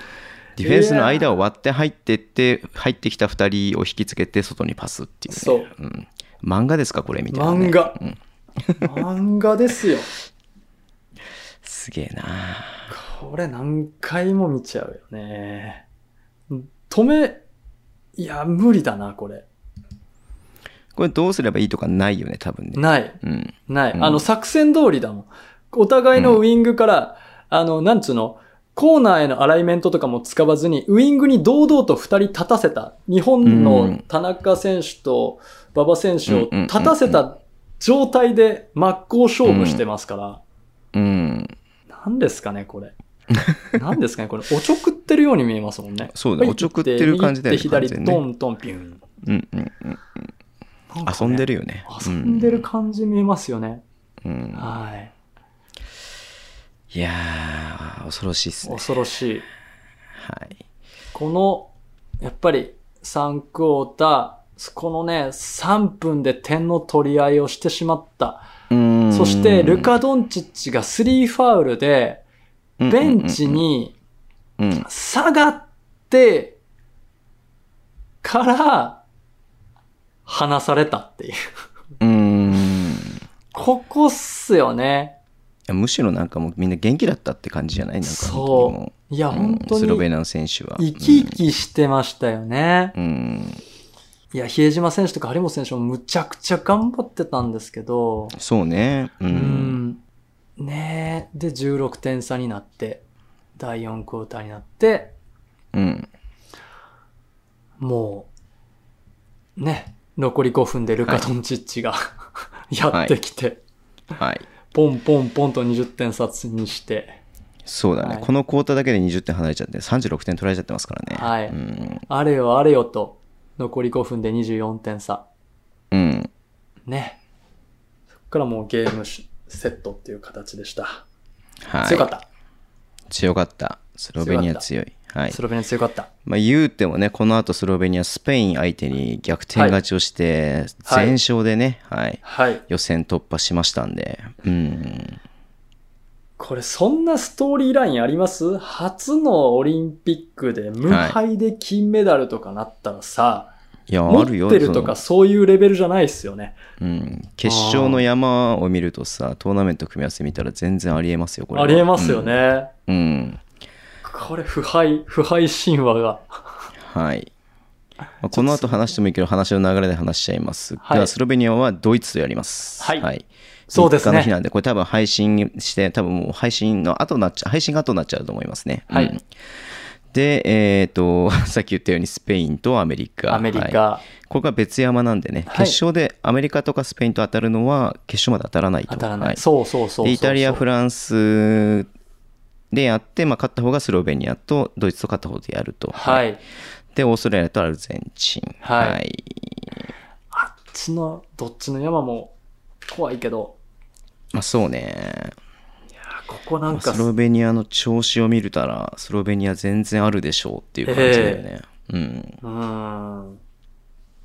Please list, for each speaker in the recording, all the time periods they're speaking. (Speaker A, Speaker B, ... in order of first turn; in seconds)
Speaker A: 0.6-8.8, 11.6-12.9, 20.9-24.2, 33.4-34.0, 36.3-37.2, 39.4-39.8, 40.9-41.5, 46.1-48.2, 49.2-50.2, 51.0-52.6, 54.2-54.7, 56.9-58.9, 60.1-60.6, 68.7-69.9, 72.8-73.6, 74.6-74.8, 82.0-83.2, 85.7-91.4, 92.9-93.6, 98.3-99.8, 105.7-106.1, 114.2-114.4, 117.6-122.0, 125.9-126.3, 131.6-132.1, 133.1-135.4, 136.2-145.2, 150.9-151.2, 153.9-155.0, 156.8-162.3, 162.9-163.4, 166.8-167.3, 168.2-179.2, 180.1-189.4, 190.0-191.9, 192.7-196.2, 196.9-199.8, 204.3-205.3, 206.7-212.4
Speaker B: 0.6-1.3, 5.3-5.7, 7.3-8.0, 8.8-10.1, 12.9-15.8, 16.5-17.4, 18.2-19.4, 22.8-40.4, 41.9-42.9, 43.7-49.0, 50.9-53.8, 54.5-55.1, 58.6-59.5, 61.1-68.5, 69.1-72.2, 72.9-74.0, 74.8-76.6, 78.2-79.0, 80.2-81.4, 83.5-85.2, 88.0-90.0, 90.8-92.9, 94.3-98.3, 99.3-100.0, 100.6-103.0, 103.6-105.1, 107.8-108.3, 109.6-112.0, 112.7-113.6, 114.7-117.2, 118.0-118.3, 121.1-121.5, 122.1-125.2, 126.9-127.2, 128.3-131.0, 131.8-132.2, 134.2-134.6, 135.3-136.1, 140.8-141.2, 142.2-142.6, 146.4-153.5, 154.1-156.6, 157.4-158.0, 161.5-162.7, 164.0-166.4, 168.3-168.8, 170.8-171.1, 172.8-173.1, 173.7-174.3, 178.9-179.2, 183.3-184.0, 185.5-185.8, 188.9-190.6, 195.9-196.4, 198.6-199.0, 200.3-202.3, 202.9-203.6, 206.0-207.1, 210.8-211.4, 212.4-213.4